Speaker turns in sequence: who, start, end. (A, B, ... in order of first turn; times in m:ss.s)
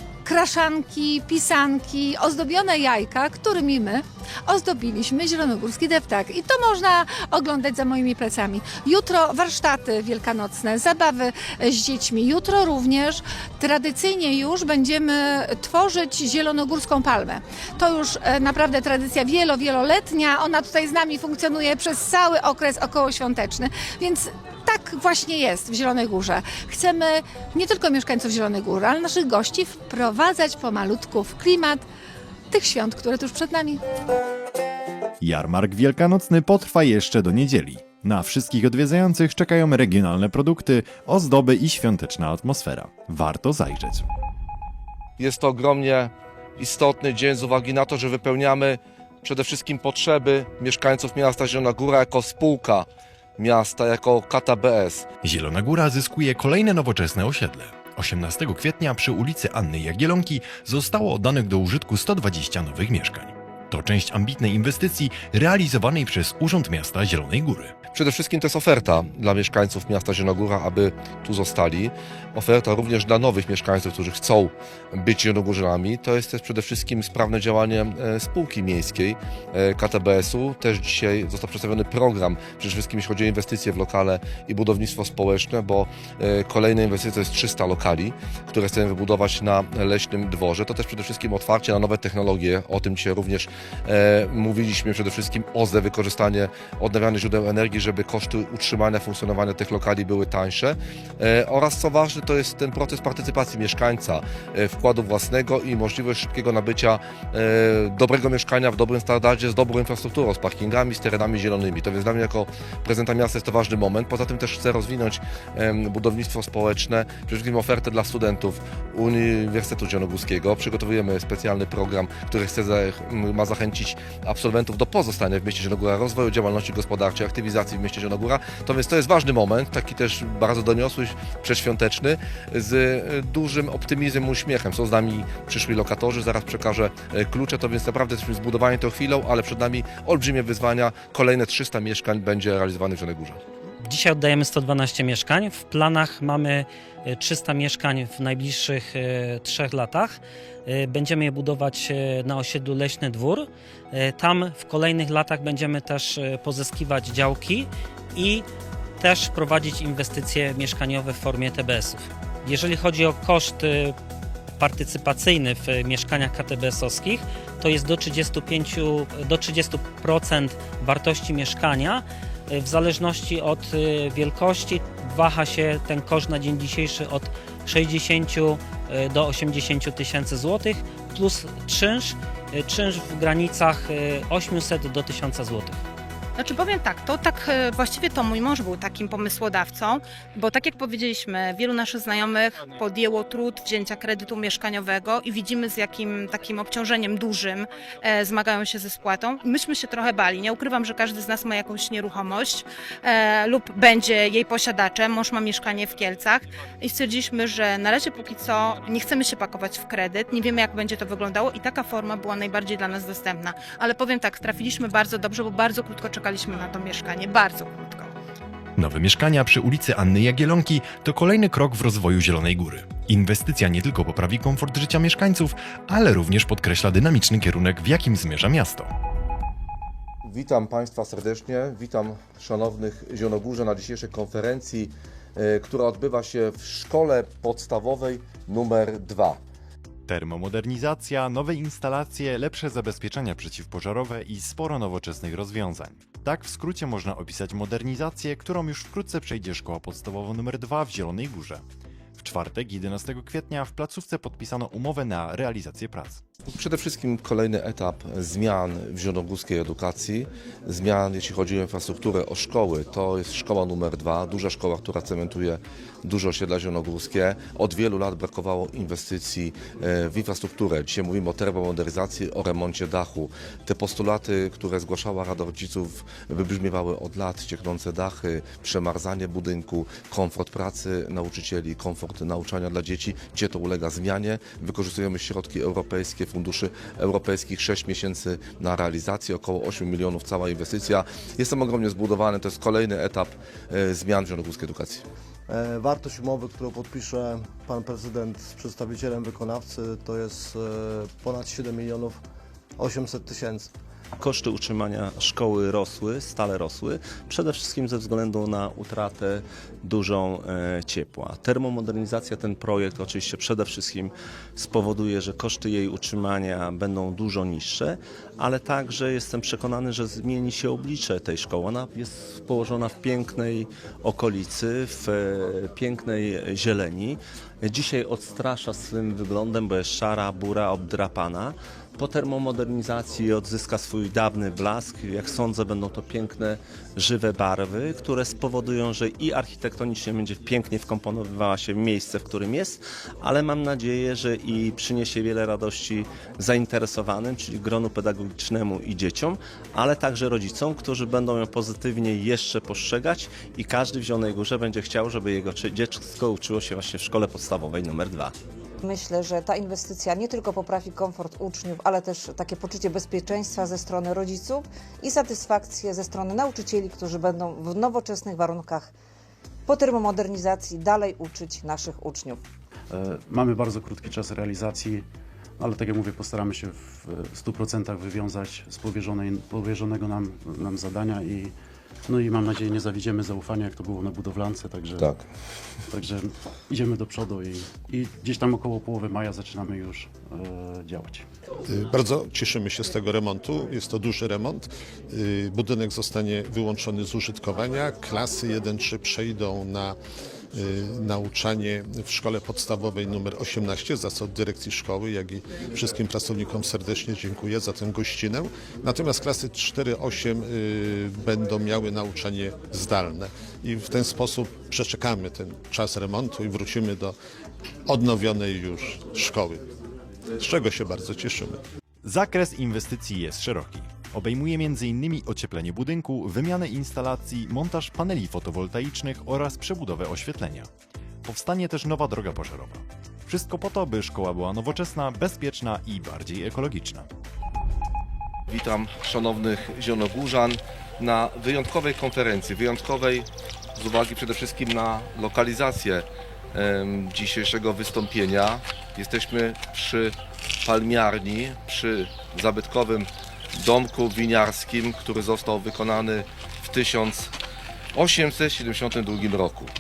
0:00.2-0:31.8 A
0:32.5-0:33.8 A
0:35.2-0:44.1 B
0:45.2-0:52.9 C
0:53.4-0:55.1 C
0:55.2-1:07.7 B
1:07.9-2:23.4 C
2:23.8-2:38.5 D
2:39.0-2:44.0 D
2:44.6-3:05.8 D
3:06.4-3:38.1 E
3:38.8-3:48.9 B
3:50.2-3:59.4 C
4:00.1-4:11.6 B
4:12.2-4:16.2 B
4:16.5-4:55.1 C
4:55.5-5:02.2 F
5:02.8-5:03.7 F
5:04.2-5:58.3 G
5:58.8-6:08.9 H
6:09.7-6:12.4 H
6:12.9-6:15.1 I
6:15.6-6:21.6 I
6:22.1-6:25.2 I
6:25.0-6:25.2 C
6:25.9-6:31.3 I
6:31.7-6:40.0 J
6:40.5-6:57.2 J
6:57.9-6:59.7 J
7:00.4-7:01.6 J
7:02.0-7:10.7 B
7:11.2-7:17.1 B
7:18.5-7:37.4 C
7:37.9-7:39.7 C